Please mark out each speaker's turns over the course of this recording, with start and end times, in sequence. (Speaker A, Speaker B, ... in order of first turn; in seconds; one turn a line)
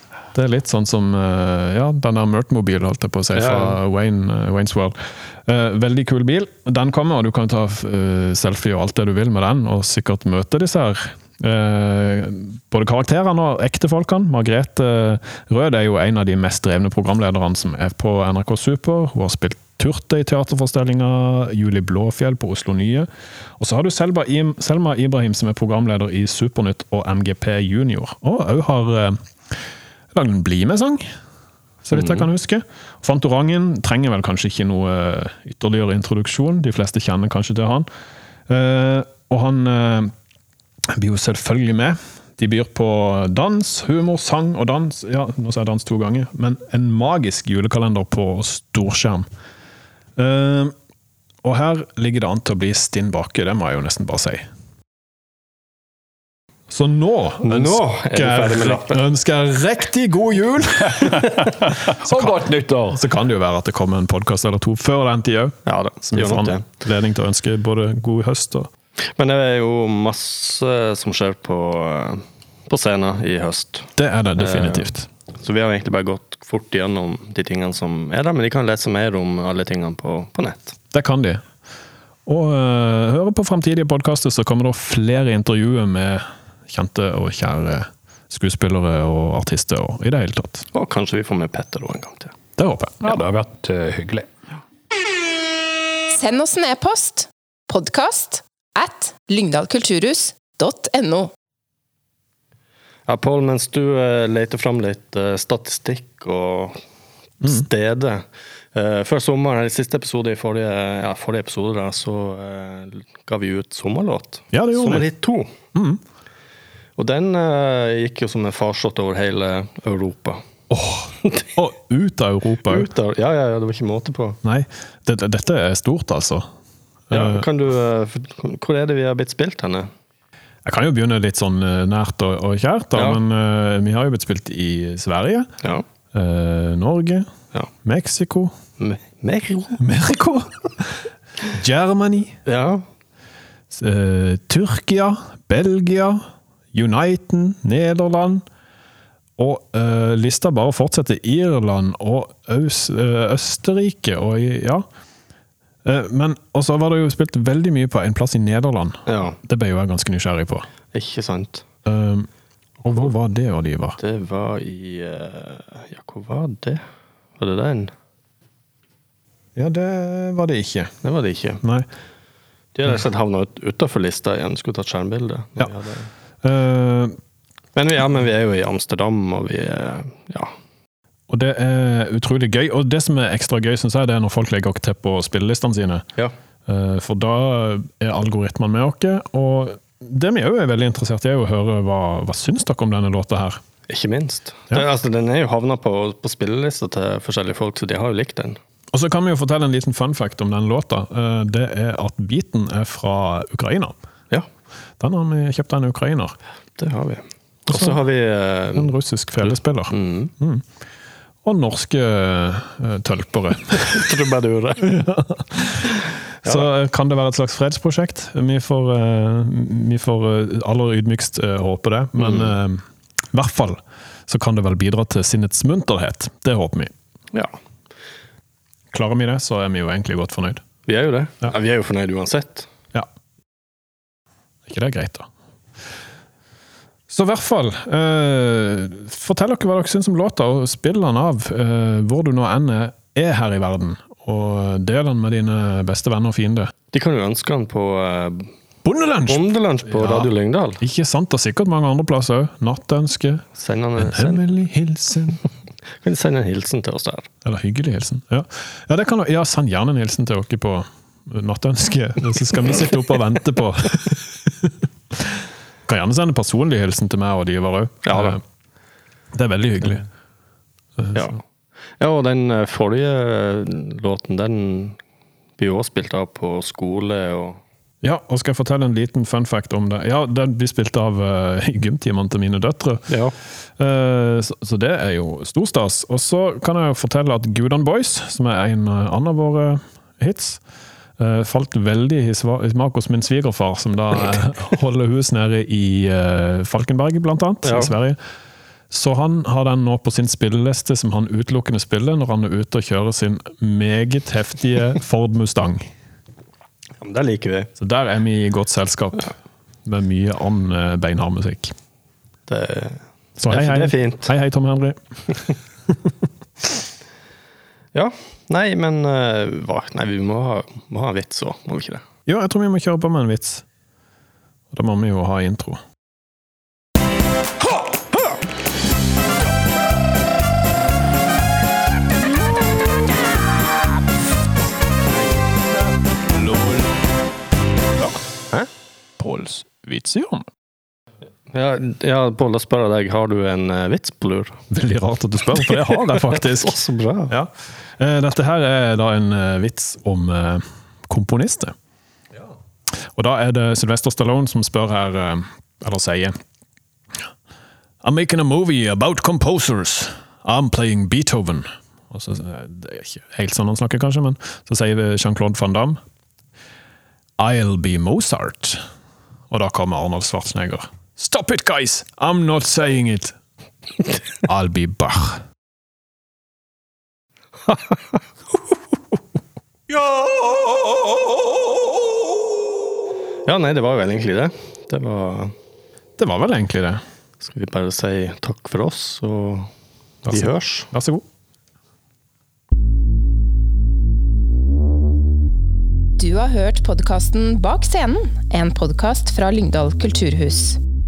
Speaker A: 0.3-31.1
Speaker B: 3.3-3.8
Speaker A: 31.8-37.9
Speaker A: 38.5-40.1
Speaker A: 40.9-49.3
Speaker A: 50.2-50.7
Speaker A: 51.4-54.5
Speaker A: 56.7-68.7
Speaker B: 57.4-59.0
Speaker C: 61.6-63.0
Speaker B: 65.7-66.6
Speaker B: 69.1-80.8
Speaker A: 74.0-75.1
Speaker A: 80.9-81.4
Speaker A: 82.2-90.7
Speaker B: 90.7-92.3
Speaker A: 92.6-93.2
Speaker C: 93.0-94.3
Speaker D: 96.1-101.3
Speaker B: 103.1-106.8
Speaker B: 107.4-115.5
Speaker A: 107.4-107.7
Speaker A: 114.5-115.1
Speaker A: 115.7-116.0
Speaker B: 117.0-120.4
Speaker A: 120.7-122.9
Speaker B: 122.7-124.4
Speaker A: 124.4-126.5
Speaker A: 127.1-127.5
Speaker B: 127.1-129.9
Speaker A: 130.6-135.5
Speaker B: 132.9-133.2
Speaker A: 136.1-137.3
Speaker A: 137.8-138.6
Speaker B: 138.8-139.8
Speaker A: 139.8-142.4
Speaker B: 142.4-142.8
Speaker A: 143.7-148.4
Speaker A: 149.4-154.9
Speaker A: 155.8-160.7
Speaker B: 159.1-159.4
Speaker B: 160.9-161.6
Speaker A: 161.8-162.3
Speaker A: 162.8-164.0
Speaker B: 164.0-166.8
Speaker B: 167.4-167.9
Speaker A: 169.6-171.0
Speaker B: 171.0-171.6
Speaker A: 171.6-171.9
Speaker B: 172.7-176.1
Speaker A: 176.4-177.2
Speaker B: 177.7-180.5
Speaker A: 181.3-186.1
Speaker A: 186.7-193.6
Speaker B: 193.9-198.6
Speaker A: 198.9-203.9
Speaker A: 205.0-206.3
Speaker B: 206.8-210.3
Speaker A: 207.7-208.0
Speaker A: 208.7-210.7
Speaker A: 211.4-214.1
Speaker B: 213.8-215.0
Speaker A: 214.8-215.9
Speaker A: 216.4-226.9
Speaker B: 222.2-222.5
Speaker A: 228.9-230.6
Speaker B: 230.9-232.7
Speaker A: 234.7-235.3
Speaker A: 237.1-246.7
Speaker B: 246.9-248.5
Speaker A: 248.8-255.4
Speaker B: 249.3-250.8
Speaker B: 253.6-254.4
Speaker B: 256.0-257.3
Speaker A: 257.4-268.4
Speaker B: 268.1-268.4
Speaker A: 269.3-270.1
Speaker A: 271.0-271.3
Speaker B: 271.1-271.4
Speaker B: 272.0-275.0
Speaker B: 275.6-277.6
Speaker A: 278.0-283.1
Speaker B: 283.1-283.3
Speaker A: 283.8-290.6
Speaker A: 291.2-298.2
Speaker B: 297.6-297.9
Speaker A: 298.9-305.9
Speaker B: 307.0-307.7
Speaker A: 307.8-309.3
Speaker A: 309.8-311.7
Speaker B: 312.5-314.3
Speaker A: 313.4-316.1
Speaker B: 317.9-322.0
Speaker A: 322.3-323.6
Speaker A: 324.7-325.8
Speaker A: 336.4-336.9
Speaker A: 339.2-340.5
Speaker B: 341.5-344.6
Speaker A: 344.7-351.7
Speaker B: 345.9-347.3
Speaker A: 352.9-356.4
Speaker A: 358.0-366.0
Speaker A: 367.4-368.8
Speaker A: 369.5-373.4
Speaker A: 374.4-375.4
Speaker B: 379.9-380.5
Speaker B: 383.4-385.5
Speaker A: 386.2-387.0
Speaker B: 387.4-389.7
Speaker B: 390.2-390.9
Speaker A: 390.2-391.2
Speaker D: 396.2-400.8